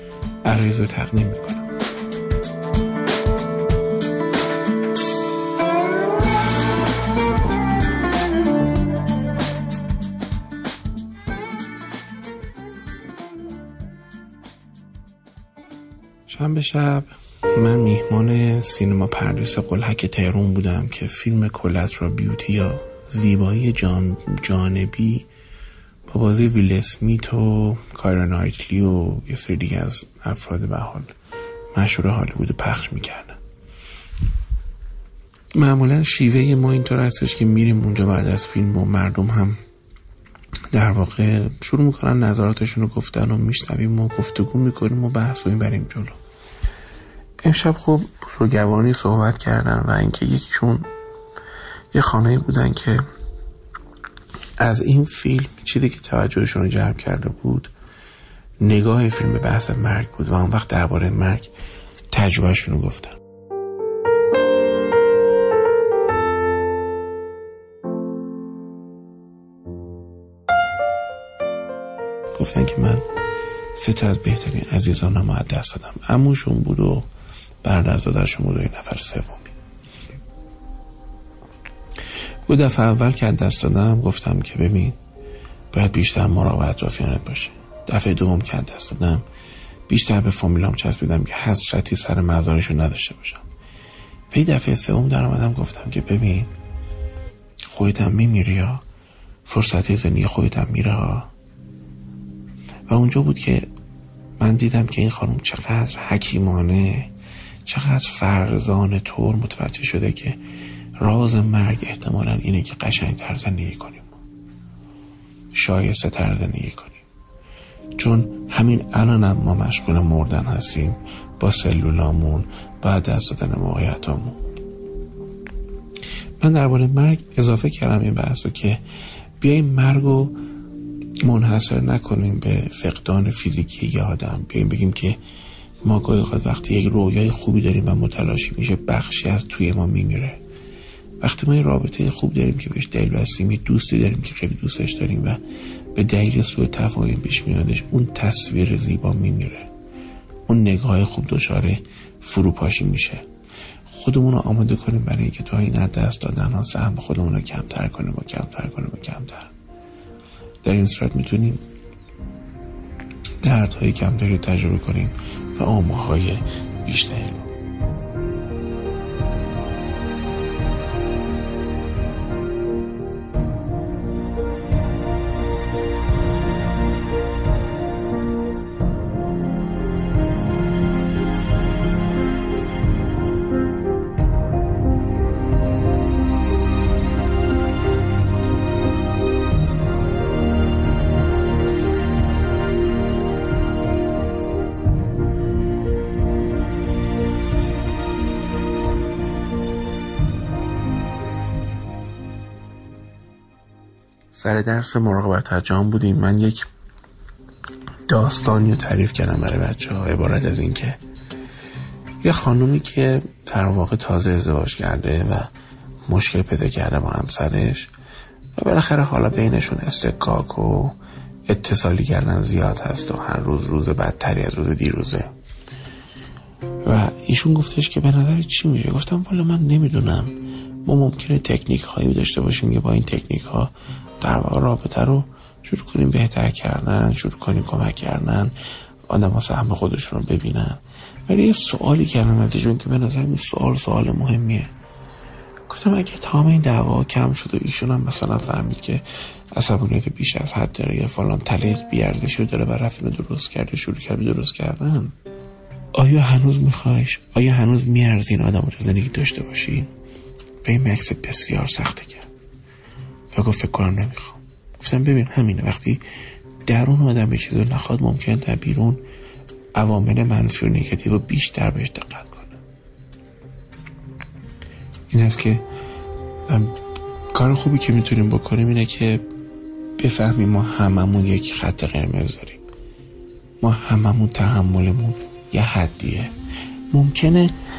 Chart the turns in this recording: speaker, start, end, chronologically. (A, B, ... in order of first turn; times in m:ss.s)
0:00.4-0:01.7 A
0:16.3-0:25.3 A
0:26.1-0:31.1 A
0:31.7-0:33.4 A
0:35.5-0:39.6 A
0:40.7-0:46.2 A
0:47.4-0:50.9 A
0:51.9-0:53.0 A
0:54.6-0:57.7 A
0:58.6-1:01.5 A
1:02.1-1:03.2 A
1:12.3-1:13.0 A
1:13.8-1:17.1 A
1:17.6-1:19.5 A
1:22.5-1:25.0 A
1:25.7-1:29.2 A
1:29.9-1:33.4 A
1:34.3-1:36.5 A
1:37.7-1:38.8 A
1:39.4-1:41.3 A
1:42.9-1:43.7 A
1:44.4-1:47.1 A
1:47.7-1:50.4 A
1:51.0-1:54.2 A
1:55.5-1:57.0 A
1:58.0-2:04.4 A
2:06.4-2:08.8 A
2:09.4-2:10.4 A
2:11.2-2:15.2 A
2:15.8-2:20.4 A
2:21.2-2:25.4 A
2:25.9-2:29.7 A
2:30.5-2:33.2 A
2:33.9-2:39.5 A
2:40.6-2:41.6 A
2:43.4-2:47.5 A
3:24.3-3:26.7 A
3:28.1-3:31.0 A
3:32.2-3:35.5 A
3:36.1-3:37.9 A
3:38.6-3:41.0 A
3:41.5-3:45.3 A
3:46.8-3:58.6 A
3:59.1-4:04.7 A
4:05.7-4:15.2 A
4:15.9-4:19.9 A
4:20.6-4:22.3 A
4:23.3-4:26.0 A
4:26.7-4:29.0 A
4:29.8-4:32.6 A
4:35.1-4:35.6 A
4:36.5-4:36.8 A
4:37.3-4:39.2 A
4:40.0-4:42.6 A
4:43.6-4:46.3 A
4:46.9-4:47.5 A